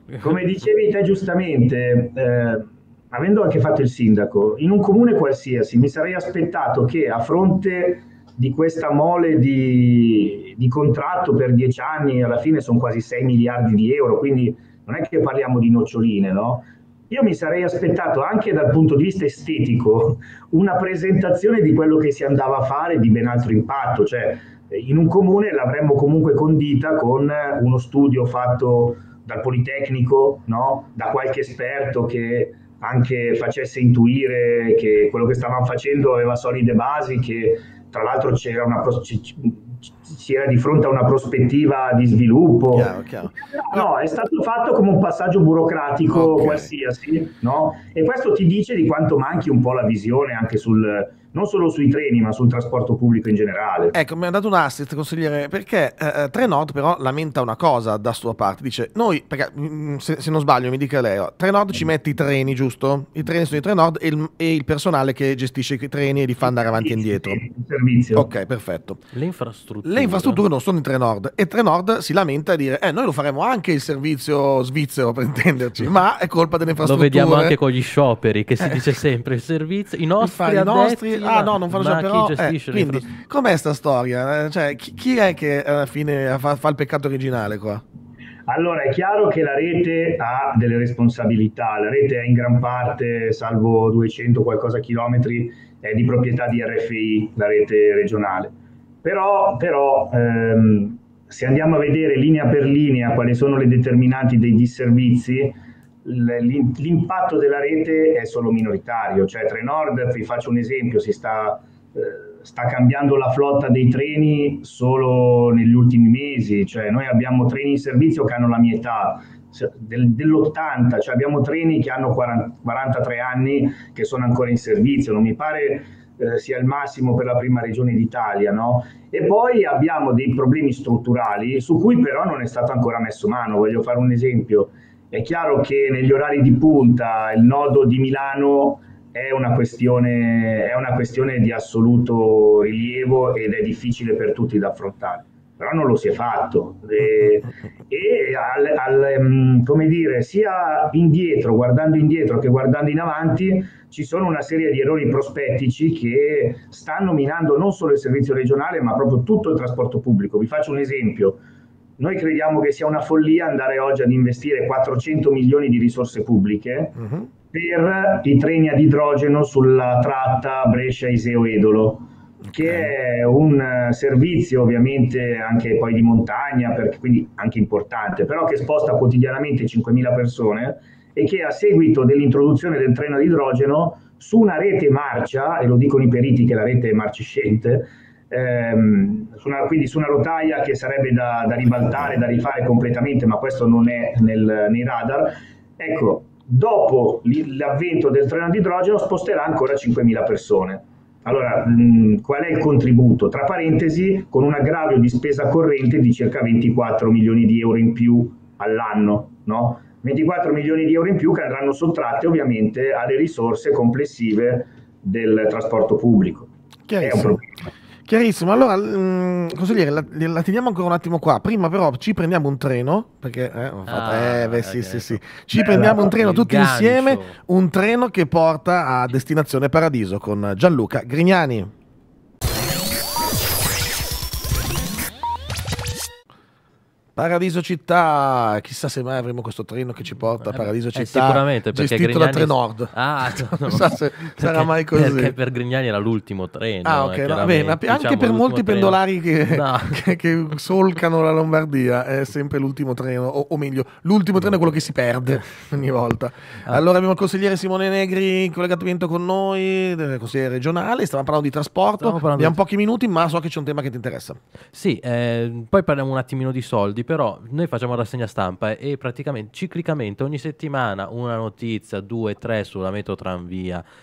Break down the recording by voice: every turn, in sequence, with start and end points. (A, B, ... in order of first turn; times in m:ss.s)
0:00.2-0:42.9 A
0:42.7-0:43.8 B
0:43.5-0:54.0 A
0:46.1-0:46.7 B
0:53.9-1:07.4 B
1:06.4-1:08.3 A
1:08.1-1:09.0 B
1:09.1-1:10.4 C
1:09.8-1:17.6 B
1:16.8-1:23.1 C
1:18.6-1:18.9 B
1:20.2-1:27.8 B
1:28.4-2:41.4 A
2:42.0-2:47.0 A
2:47.0-2:47.3 B
2:47.5-3:37.5 A
3:36.9-3:37.4 B
3:38.0-3:51.7 B
3:43.9-3:47.4 C
3:57.2-4:05.3 B
4:00.5-4:10.0 C
4:06.8-4:24.4 B
4:14.5-4:14.7 C
4:22.0-4:22.6 C
4:24.7-4:33.8 C